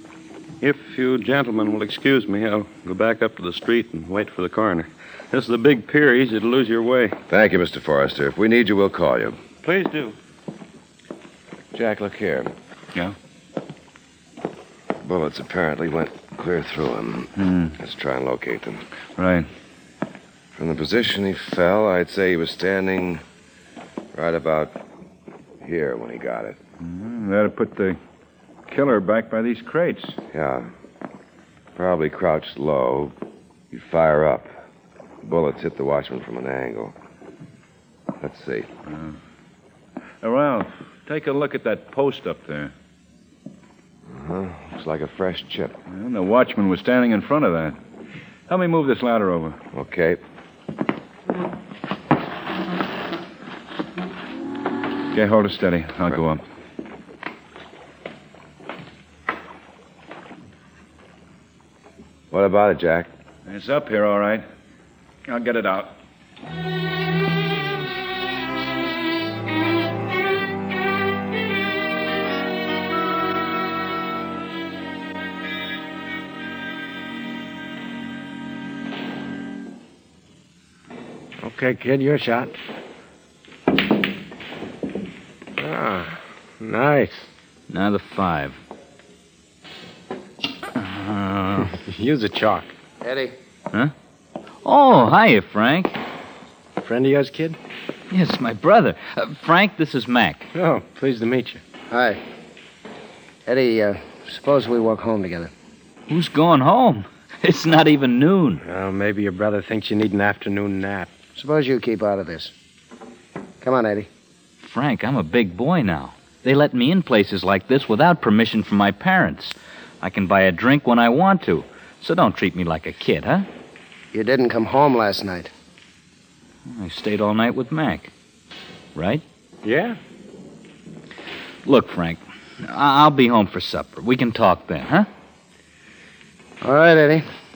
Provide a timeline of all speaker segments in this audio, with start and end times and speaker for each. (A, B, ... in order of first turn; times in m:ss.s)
0:00.6-0:07.2 A
0:07.3-0:09.4 B
0:09.6-0:10.2 A
0:11.7-0:12.5 B
0:15.0-0:18.8 B
0:17.4-0:17.8 C
0:19.2-0:19.5 C
0:20.6-0:23.2 B
0:24.1-0:24.8 B
0:25.6-0:26.6 B
0:26.8-0:28.0 C
0:28.7-0:30.2 C
0:30.3-0:30.7 B
0:31.8-0:33.2 B
0:33.7-0:34.5 B
0:35.2-0:37.0 B
0:38.2-0:38.7 B
0:38.9-0:39.2 C
0:40.2-0:42.7 C
0:44.1-0:45.8 B
0:45.9-0:47.8 C
0:48.5-0:49.6 C
0:49.7-0:50.2 B
0:55.1-0:56.4 C
1:02.3-1:03.1 B
1:03.5-1:04.4 C
1:05.3-1:06.0 C
1:21.4-1:22.6 D
1:25.6-1:27.3 D
1:27.7-1:28.6 E
1:30.8-1:31.7 E
1:31.8-1:32.7 D
1:33.0-1:33.3 F
1:34.6-1:36.0 E
1:36.8-1:37.6 D
1:38.1-1:40.5 E
1:40.5-1:41.6 D
1:41.9-1:42.2 F
1:43.5-1:45.5 F
1:46.1-1:48.6 E
1:48.7-1:51.1 D
1:51.4-1:52.5 F
1:53.6-1:54.1 F
1:54.6-2:03.5 E
2:04.1-2:05.5 F
2:06.7-2:08.1 E
2:09.0-2:09.2 E
2:09.6-2:10.0 D
2:11.6-2:15.1 E
2:16.6-2:17.2 F